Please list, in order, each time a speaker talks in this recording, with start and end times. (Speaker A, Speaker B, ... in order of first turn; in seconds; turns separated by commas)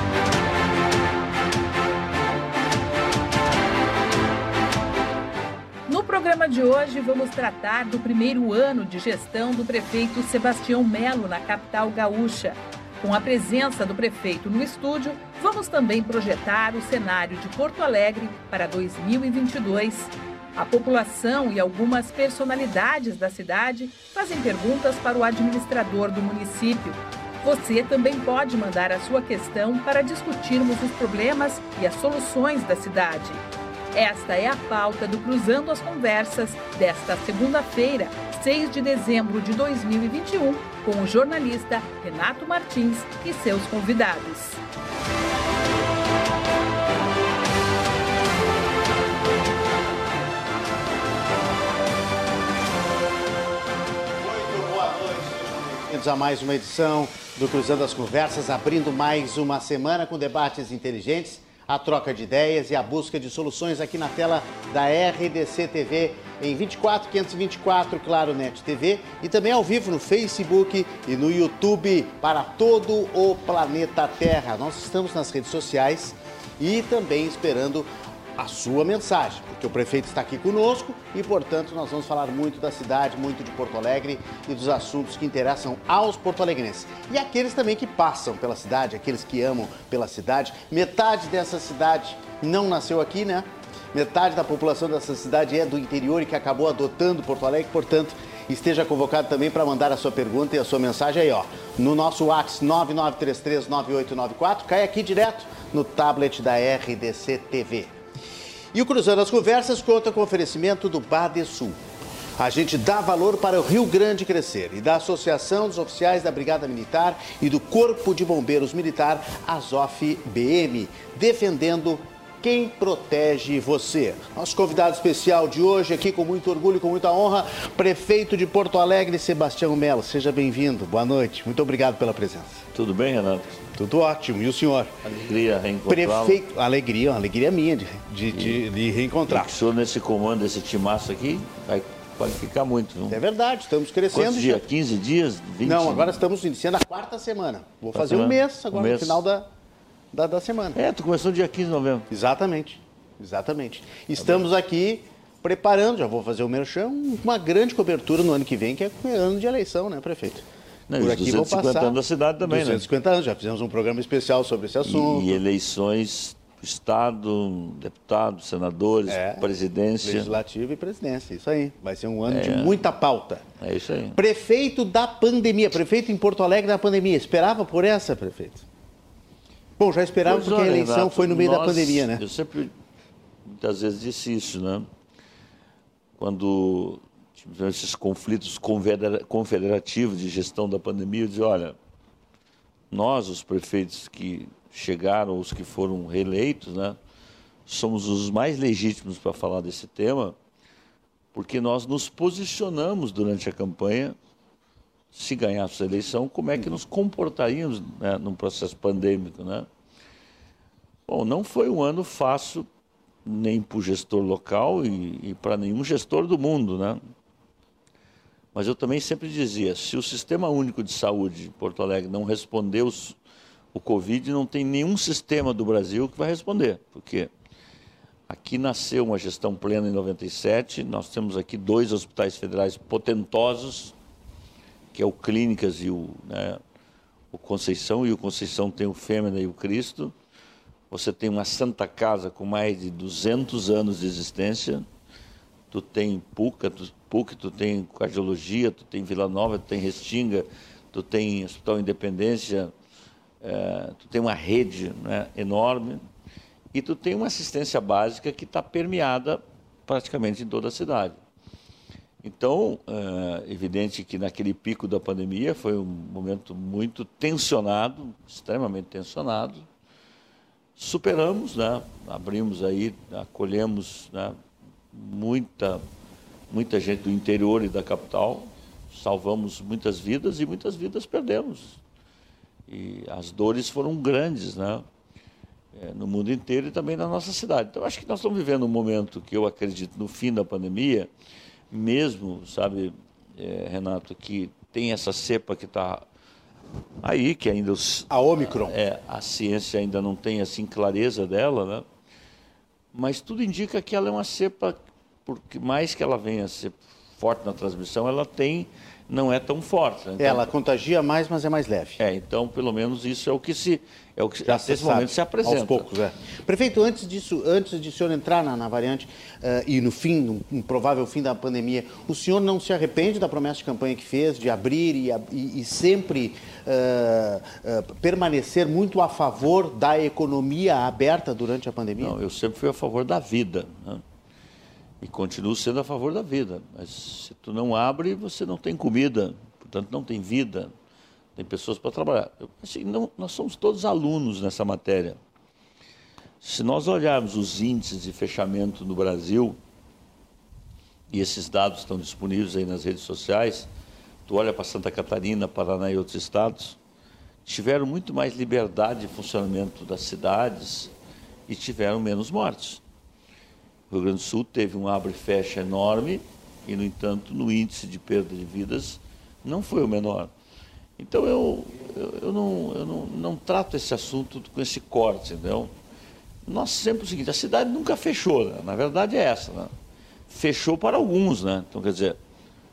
Speaker A: 5.9-33.4, Speaker A: 33.9-44.6, Speaker B: 54.2-107.9, Speaker B: 108.7-111.8, Speaker B: 112.4-132.6, Speaker C: 132.7-133.6, Speaker B: 133.8-134.9, Speaker C: 135.0-136.4, Speaker B: 135.9-139.5, Speaker C: 138.3-138.6, Speaker C: 139.3-143.2, Speaker B: 143.1-144.6, Speaker C: 144.1-146.2, Speaker B: 145.6-149.5, Speaker C: 147.9-149.2, Speaker B: 150.1-150.8, Speaker C: 150.7-152.1, Speaker B: 152.1-160.4, Speaker C: 154.2-154.4, Speaker C: 160.9-162.8, Speaker B: 161.0-165.4, Speaker C: 164.8-170.3, Speaker B: 169.1-169.5, Speaker B: 170.0-173.4, Speaker C: 172.3-172.9, Speaker C: 173.6-174.2, Speaker B: 174.1-178.7, Speaker B: 179.8-182.2, Speaker C: 180.2-182.7, Speaker C: 183.4-184.9, Speaker C: 186.2-191.8, Speaker C: 192.9-197.0, Speaker C: 197.7-200.3, Speaker C: 201.3-204.2, Speaker C: 205.1-209.7, Speaker C: 211.1-212.7, Speaker C: 213.2-217.0, Speaker C: 218.5-223.2, Speaker C: 223.7-227.3, Speaker C: 228.3-233.9, Speaker C: 234.9-236.6, Speaker C: 237.3-240.1, Speaker C: 240.9-244.8, Speaker C: 245.7-252.7, Speaker C: 253.4-256.0, Speaker C: 256.7-261.2, Speaker C: 262.2-269.7, Speaker C: 270.8-274.4, Speaker C: 274.9-275.8, Speaker C: 276.5-281.8, Speaker C: 282.7-284.9, Speaker C: 285.7-291.1, Speaker C: 291.7-296.0, Speaker C: 297.0-301.9, Speaker B: 298.1-298.8, Speaker C: 302.9-310.5, Speaker B: 310.2-312.0, Speaker C: 312.0-315.9, Speaker B: 314.4-332.1, Speaker C: 332.0-334.0, Speaker C: 335.0-340.7, Speaker C: 341.4-345.2, Speaker C: 346.4-349.6, Speaker C: 351.1-353.7, Speaker C: 354.3-356.8, Speaker C: 357.4-360.9, Speaker C: 361.5-362.8, Speaker C: 363.9-370.3, Speaker C: 371.0-375.7, Speaker C: 376.4-379.7, Speaker C: 380.3-382.2